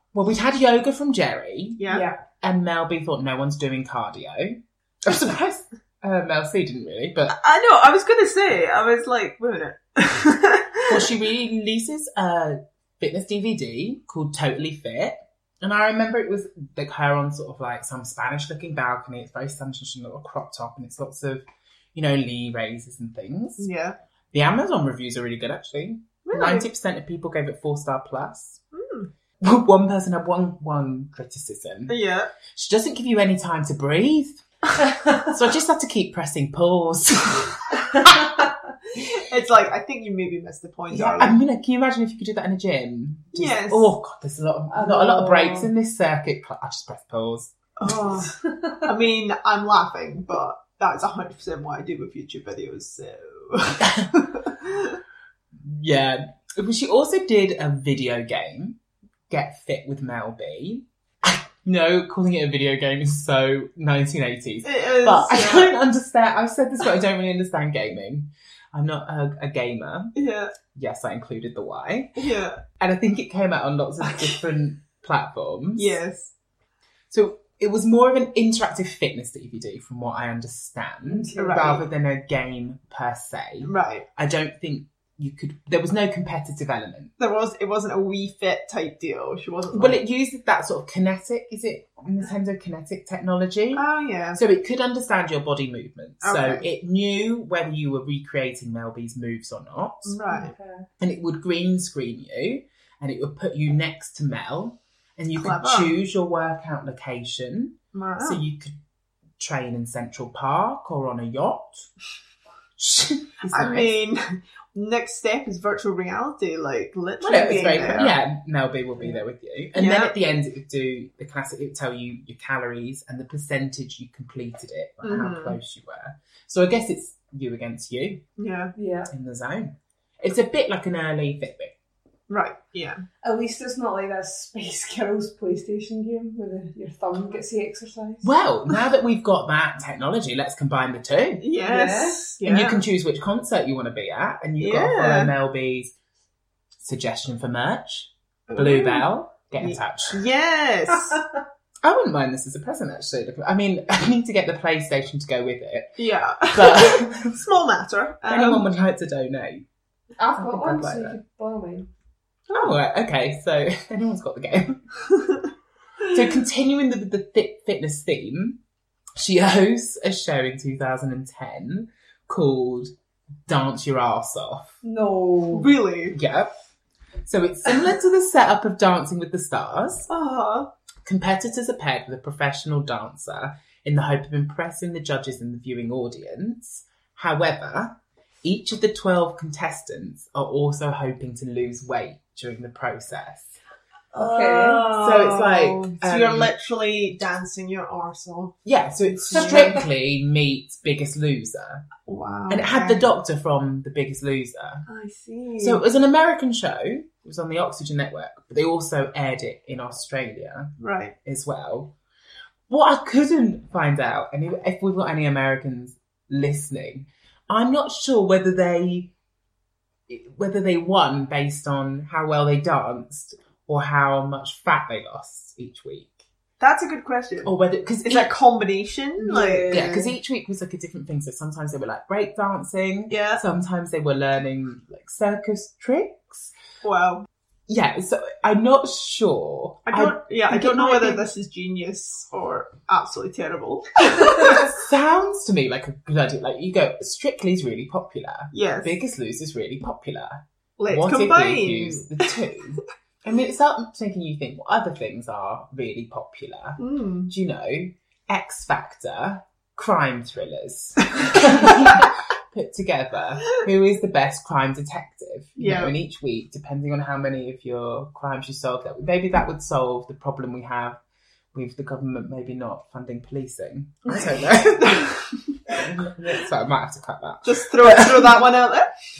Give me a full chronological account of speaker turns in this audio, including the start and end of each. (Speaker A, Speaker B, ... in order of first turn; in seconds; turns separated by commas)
Speaker A: 0.1-1.9, Speaker B: 1.8-2.1, Speaker C: 1.9-2.2, Speaker A: 2.4-7.3, Speaker B: 7.3-11.1, Speaker A: 10.9-23.7, Speaker B: 23.6-23.9, Speaker A: 24.3-28.6, Speaker B: 26.2-26.7, Speaker B: 28.7-29.1, Speaker A: 29.4-32.0, Speaker B: 31.9-32.3, Speaker A: 32.5-34.4, Speaker A: 35.2-38.3, Speaker B: 39.0-41.4, Speaker A: 40.9-47.5, Speaker B: 43.3-43.9, Speaker C: 44.7-45.7, Speaker B: 47.8-55.0, Speaker A: 53.8-54.1, Speaker A: 55.6-58.8, Speaker A: 59.3-70.1, Speaker B: 64.6-65.7, Speaker B: 70.1-70.5, Speaker A: 70.7-72.2, Speaker B: 72.2-72.6, Speaker A: 72.8-76.0, Speaker B: 75.8-76.3, Speaker A: 77.1-87.1, Speaker C: 81.0-81.8, Speaker B: 81.3-81.8, Speaker B: 83.6-84.0, Speaker B: 87.2-90.0, Speaker A: 89.7-100.2, Speaker B: 93.7-94.4, Speaker B: 96.2-96.6, Speaker B: 100.0-100.5, Speaker C: 100.3-100.9, Speaker A: 101.0-108.8, Speaker B: 105.3-106.0, Speaker B: 107.9-108.4, Speaker A: 109.4-111.9, Speaker A: 112.8-114.0, Speaker B: 113.5-118.2, Speaker A: 117.2-128.2, Speaker B: 119.7-120.1, Speaker B: 125.0-125.6, Speaker B: 128.4-128.7, Speaker C: 128.8-129.1, Speaker A: 129.1-131.7, Speaker B: 132.3-133.0, Speaker C: 133.2-138.3, Speaker A: 138.2-141.4, Speaker B: 141.4-142.8, Speaker C: 141.6-142.3, Speaker A: 142.4-145.9, Speaker B: 144.6-145.3, Speaker A: 146.8-150.2, Speaker B: 148.5-149.1, Speaker B: 149.6-151.2, Speaker A: 151.8-157.4, Speaker B: 156.0-158.7, Speaker A: 158.3-159.6, Speaker C: 160.2-161.9, Speaker A: 160.3-161.2, Speaker B: 162.5-162.7, Speaker A: 162.5-164.8, Speaker A: 166.1-168.6, Speaker A: 169.2-172.9, Speaker A: 173.5-174.8, Speaker C: 174.8-175.7, Speaker B: 175.5-176.2, Speaker A: 176.1-176.5, Speaker A: 177.2-180.1, Speaker B: 180.1-180.7, Speaker A: 181.0-193.5, Speaker C: 194.1-194.9, Speaker B: 194.1-198.6, Speaker A: 194.9-196.5, Speaker A: 198.6-201.9, Speaker B: 199.2-199.8, Speaker C: 199.3-199.7, Speaker B: 202.0-203.0, Speaker A: 202.5-204.8, Speaker B: 204.9-205.8, Speaker A: 205.6-210.7, Speaker B: 210.8-211.1, Speaker A: 211.2-211.9, Speaker A: 212.7-219.1, Speaker A: 220.1-226.2, Speaker B: 226.6-227.5, Speaker A: 227.4-228.3, Speaker B: 228.0-230.0, Speaker C: 229.2-230.1, Speaker A: 229.7-236.5, Speaker B: 233.1-233.4, Speaker B: 236.8-237.3, Speaker A: 237.7-241.3, Speaker B: 239.8-244.6, Speaker A: 244.3-271.0, Speaker B: 248.5-248.9, Speaker B: 250.8-252.3, Speaker B: 256.8-257.3, Speaker B: 265.6-265.9, Speaker A: 271.5-275.1, Speaker B: 274.1-275.6, Speaker A: 275.7-278.4, Speaker B: 277.4-278.9